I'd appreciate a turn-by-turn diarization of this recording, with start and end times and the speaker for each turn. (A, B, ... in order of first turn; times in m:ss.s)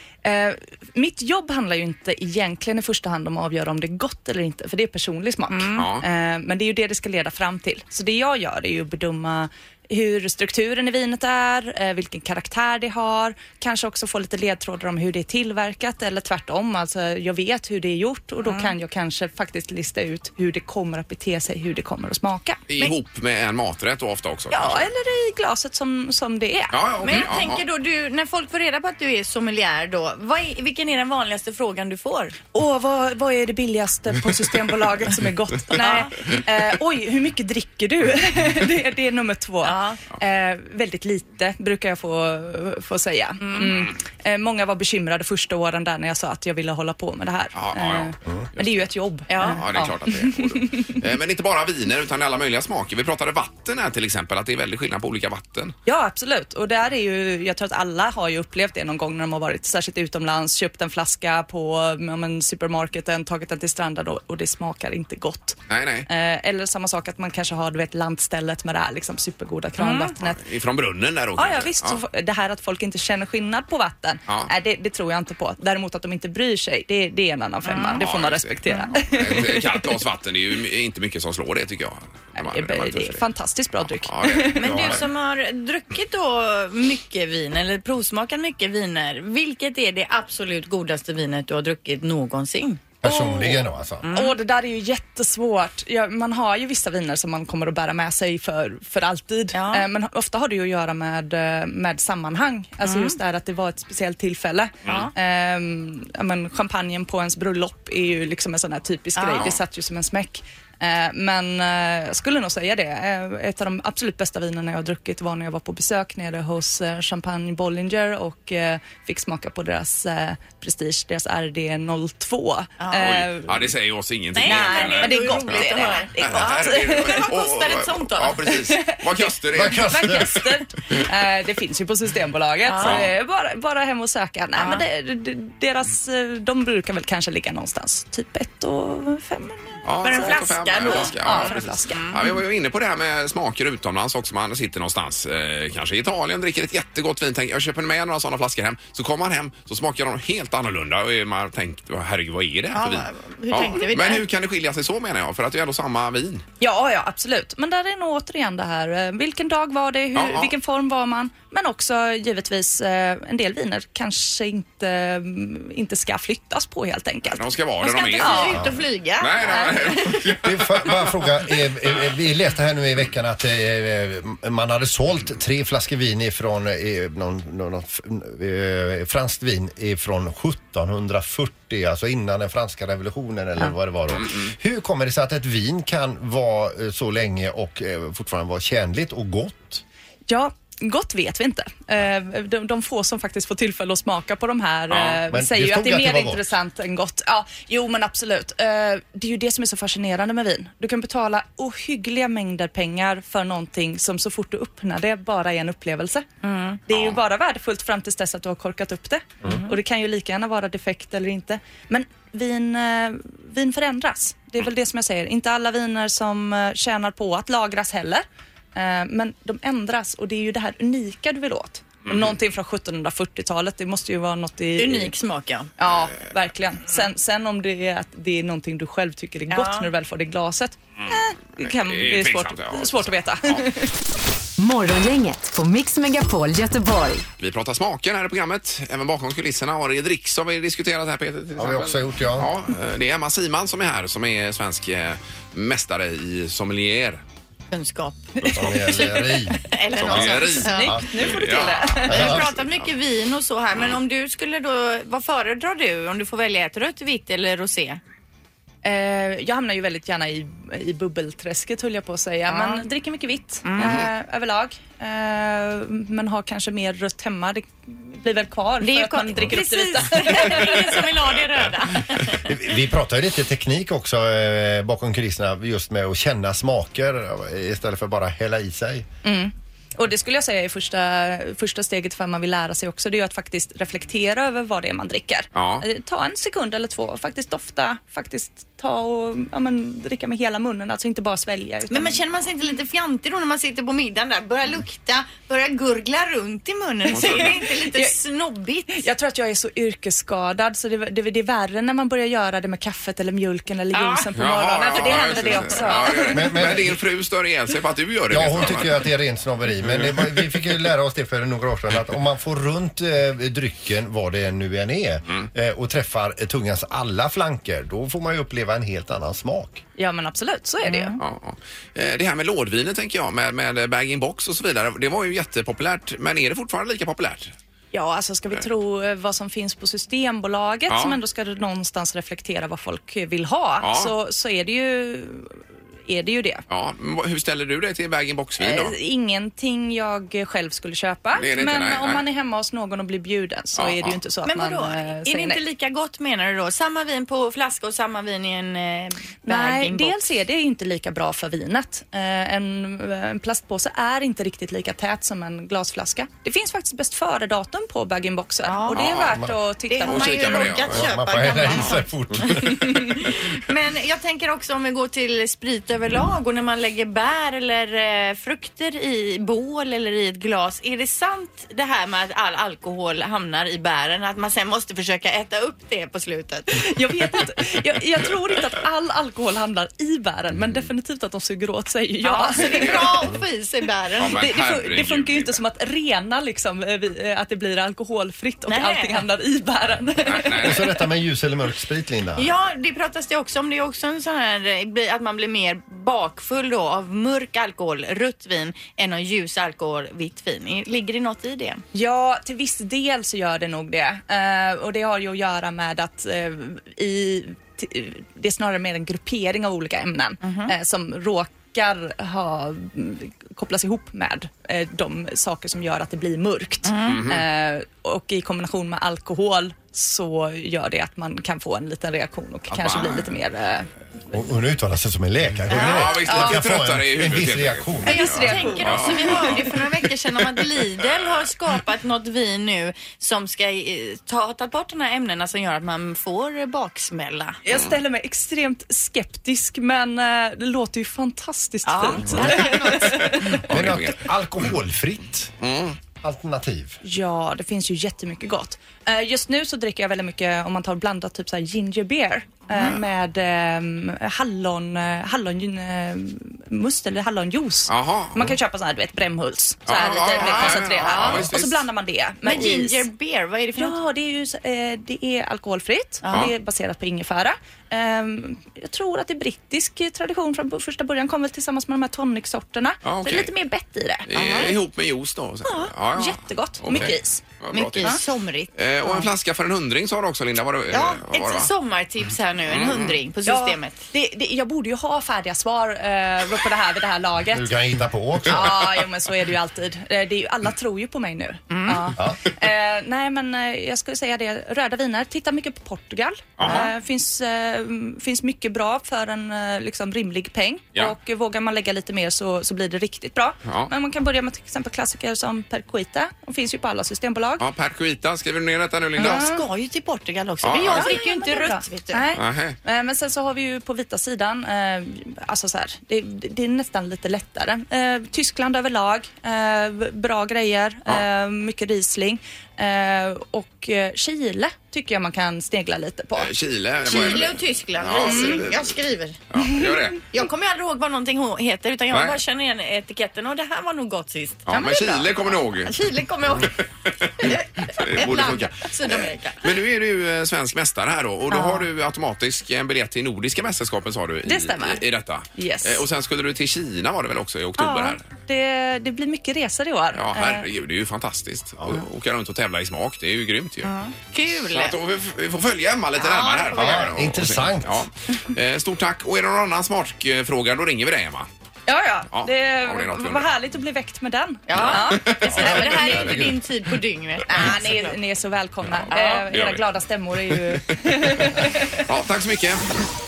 0:00.2-0:22.7 A
0:05.5-0:05.9 B
0:05.8-0:06.0 C
0:18.4-0:18.8 B
0:22.7-0:24.9 C
0:24.5-0:27.2 A
0:26.7-0:27.6 C
0:27.0-0:32.4 B
0:32.5-0:51.0 A
0:35.8-0:36.2 B
0:39.6-0:40.0 B
0:43.4-0:43.8 B
0:47.6-0:55.8 C
0:49.3-0:49.7 B
0:55.9-1:10.4 A
1:05.7-1:06.1 C
1:09.8-1:10.1 B
1:10.2-1:12.0 C
1:11.4-1:19.9 A
1:17.6-1:18.0 B
1:18.0-1:23.2 C
1:18.7-1:19.0 B
1:22.4-1:25.0 A
1:24.0-1:25.0 C
1:24.6-1:32.9 B
1:33.0-1:34.0 D
1:33.0-2:03.7 A
1:34.0-1:34.4 B
1:39.5-1:39.9 B
1:42.8-1:43.2 B
1:44.9-1:45.1 B
1:49.2-1:49.6 B
2:02.8-2:03.1 B
2:03.0-2:10.4 C
2:04.4-2:08.6 B
2:04.4-2:07.3 A
2:08.5-2:22.1 A
2:09.5-2:10.4 D
2:12.6-2:13.0 B
2:12.8-2:13.1 C
2:14.6-2:14.8 B
2:19.8-2:36.4 C
2:20.0-2:22.4 B
2:32.7-2:34.2 B
2:36.6-2:48.6 A
2:40.2-2:40.5 C
2:47.4-2:48.7 C
2:47.8-2:50.2 B
2:49.2-2:51.3 C
2:50.4-3:09.8 D
3:04.1-3:04.5 C
3:10.3-3:26.3 A
3:14.9-3:15.2 C
3:15.3-3:16.5 D
3:26.4-3:26.8 B
3:26.9-3:45.1 A
3:29.4-3:29.7 B
3:42.0-3:42.3 C
3:44.8-3:45.7 B
3:45.8-3:54.0 A
3:49.5-3:49.9 B
3:51.0-3:53.7 C
3:54.6-3:57.2 E
3:57.4-4:07.2 C
4:01.6-4:02.5 D
4:07.7-4:11.0 B
4:08.4-4:09.3 A
4:08.5-4:11.1 D
4:10.0-4:12.5 C
4:10.4-4:12.4 A
4:12.0-4:12.5 D
4:12.1-4:18.0 B
4:18.8-4:31.0 A
4:22.5-4:22.8 B
4:23.6-4:24.0 B
4:23.8-4:24.1 C
4:28.8-4:32.5 B
4:32.4-4:39.1 D
4:39.2-4:52.2 A
4:45.5-4:45.8 C
4:51.9-4:59.0 B
4:57.1-4:58.2 A
4:57.1-4:57.6 C
4:58.9-5:06.5 A
5:03.9-5:04.3 B
5:04.4-5:09.1 C
5:04.9-5:06.1 B
5:06.3-5:07.0 D
5:08.3-5:19.8 D
5:09.9-5:10.6 C
5:20.0-5:21.2 A
5:20.8-5:21.2 B
5:21.2-5:27.5 C
5:27.9-5:36.6 A
5:30.9-5:31.2 C
5:33.8-5:34.1 C
5:36.7-5:39.0 C
5:38.6-5:45.6 A
5:41.4-5:42.2 C
5:43.8-5:44.2 C
5:44.4-5:50.3 B
5:49.4-6:00.8 A
5:58.6-5:59.3 B
5:58.9-5:59.4 C
5:59.9-6:17.0 B
6:00.0-6:01.1 C
6:00.9-6:03.4 D
6:16.8-6:23.2 A
6:22.2-6:24.4 B
6:22.6-6:23.2 C
6:24.2-6:25.6 C
6:24.3-6:30.9 A
6:28.7-6:29.2 B
6:30.2-6:30.8 C
6:30.6-6:32.5 D
6:32.4-6:41.8 B
6:41.9-7:03.9 A
6:50.4-6:50.7 B
6:56.8-6:57.2 B
6:57.0-6:57.4 C
7:02.7-7:03.3 C
7:04.3-7:08.8 D
7:05.7-7:09.8 C
7:05.7-7:06.5 B
7:05.8-7:06.5 A
7:08.0-7:09.7 A
7:08.0-7:17.6 B
7:11.0-7:11.4 C
7:17.6-7:23.6 A
7:21.8-7:23.5 B
7:22.6-7:24.3 C
7:23.6-7:25.5 D
7:25.6-7:26.0 C
7:26.2-7:27.0 D
7:27.0-7:43.1 A
7:37.9-7:38.6 C
7:39.9-7:41.9 C
7:40.3-7:41.5 B
7:42.4-7:44.0 B
7:43.8-7:54.7 A
7:46.2-7:46.5 B
7:53.0-7:53.5 C
7:54.3-7:58.2 C
7:54.3-7:54.8 B
7:55.7-7:57.4 A
7:57.7-7:59.3 B
7:58.8-8:01.7 C
8:00.9-8:04.0 B
8:02.7-8:03.2 C
8:03.5-8:07.7 A
8:07.5-8:08.9 D
8:08.4-8:27.6 A
8:11.7-8:12.1 B
8:16.6-8:16.9 C
8:23.6-8:23.9 C
8:27.6-8:29.5 C
8:29.2-8:32.2 B
8:29.2-8:29.7 A
8:30.6-8:31.2 C
8:30.8-8:46.5 A
8:32.3-8:32.8 C
8:46.4-8:49.0 C
8:47.0-8:49.4 B
8:48.2-8:48.6 A
8:49.5-8:50.3 C
8:49.6-8:49.9 A
8:50.3-8:56.8 B
8:52.1-8:52.4 C
8:54.7-9:08.2 C
8:54.7-8:55.2 A
8:57.4-8:59.7 B
9:01.5-9:01.9 B
9:04.5-9:05.0 A
9:05.5-9:06.0 A
9:07.8-9:10.7 A
9:10.2-9:13.9 C
9:13.8-9:15.0 B
9:14.5-9:21.5 C
9:16.2-9:17.1 B
9:16.7-9:18.0 D
9:21.9-9:26.4 A
9:22.3-9:23.5 C
9:24.7-9:28.2 B
9:24.7-9:26.4 C
9:26.0-9:26.6 D
9:27.5-9:32.0 A
9:28.9-9:29.8 C
9:29.1-9:29.5 B
9:30.5-9:33.0 C